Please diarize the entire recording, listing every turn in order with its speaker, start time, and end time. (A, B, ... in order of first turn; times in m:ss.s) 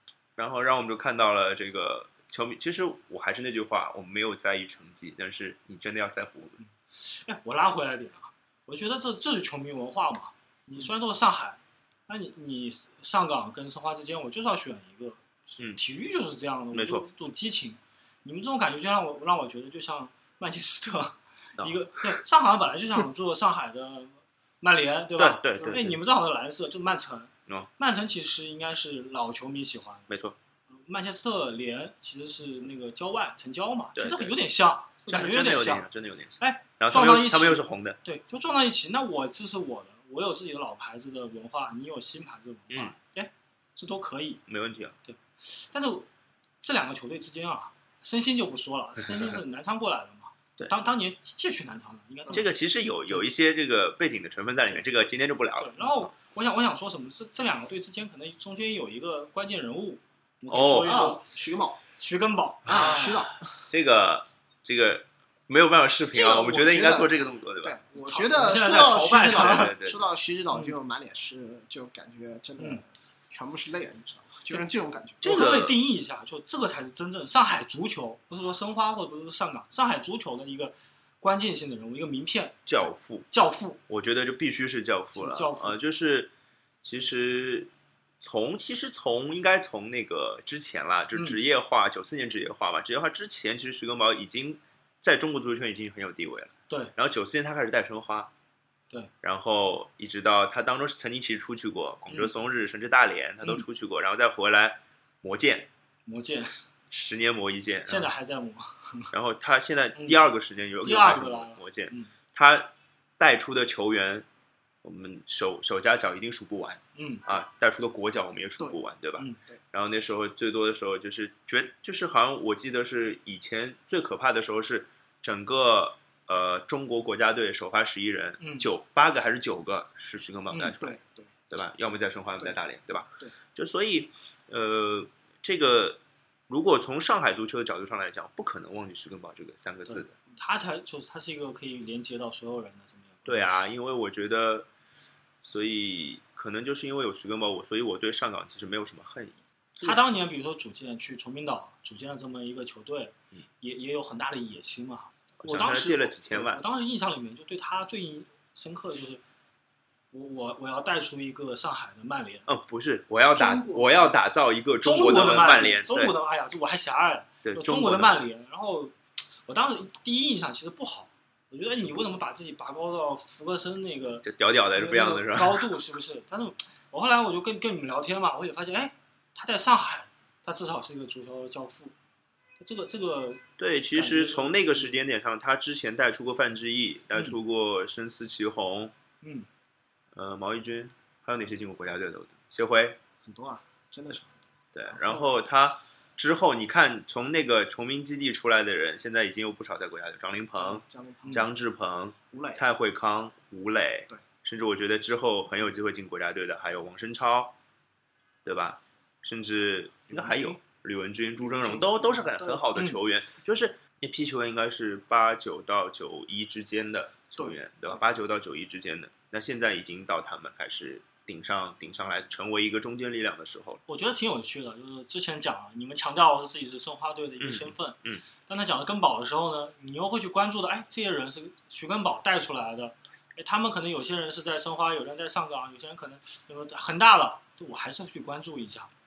0:00.4-0:06.6 A
0:06.6-0:30.1 B
0:16.7-0:17.0 A
0:25.2-0:26.0 A
0:25.6-0:25.8 C
0:30.1-0:30.4 A
0:30.7-0:35.8 B
0:34.0-0:34.4 A
0:35.1-0:38.0 A
0:36.4-0:44.4 B
0:44.5-0:45.0 A
0:45.0-0:46.1 B
0:46.6-0:52.5 B
0:52.3-0:56.1 A
0:55.6-1:01.2 B
1:00.5-1:01.1 A
1:00.8-1:01.8 C
1:01.9-1:03.3 B
1:02.6-1:03.5 C
1:03.7-1:07.8 A
1:06.1-1:15.3 C
1:08.0-1:09.7 B
1:08.8-1:10.1 A
1:15.2-1:15.8 A
1:15.2-1:22.7 B
1:22.6-1:23.3 A
1:23.3-1:23.8 B
1:23.9-1:26.3 A
1:25.2-1:25.8 B
1:26.8-1:38.3 A
1:31.1-1:31.4 B
1:36.7-1:36.9 B
1:39.2-1:45.7 A
1:42.1-1:42.3 B
1:46.0-1:46.6 B
1:46.9-1:48.1 A
1:47.8-1:49.1 B
1:49.1-1:54.2 A
1:49.9-1:50.2 B
1:50.8-1:52.1 B
1:54.8-2:20.1 A
1:56.9-1:57.2 B
2:08.4-2:08.7 B
2:10.5-2:10.8 B
2:10.8-2:11.3 C
2:19.8-2:23.6 B
2:23.3-2:24.7 A
2:25.4-2:30.0 A
2:29.8-2:39.2 B
2:35.4-2:36.6 A
2:40.1-2:42.5 B
2:42.5-2:46.2 A
2:43.3-2:44.1 C
2:44.8-3:01.9 B
2:44.9-2:45.7 C
2:47.4-2:48.2 A
2:51.8-2:52.1 A
2:54.2-2:55.7 A
3:02.6-3:04.9 B
3:03.6-3:08.9 A
3:09.2-3:09.5 B
3:10.1-3:13.0 A
3:13.2-3:14.4 C
3:14.7-3:27.5 A
3:14.9-3:15.3 C
3:20.6-3:21.5 C
3:22.3-3:22.6 C
3:28.4-3:43.8 A
3:30.1-3:30.6 C
3:31.5-3:32.6 C
3:32.7-3:33.0 B
3:37.4-3:38.0 C
3:43.9-3:58.9 B
3:47.4-3:48.2 A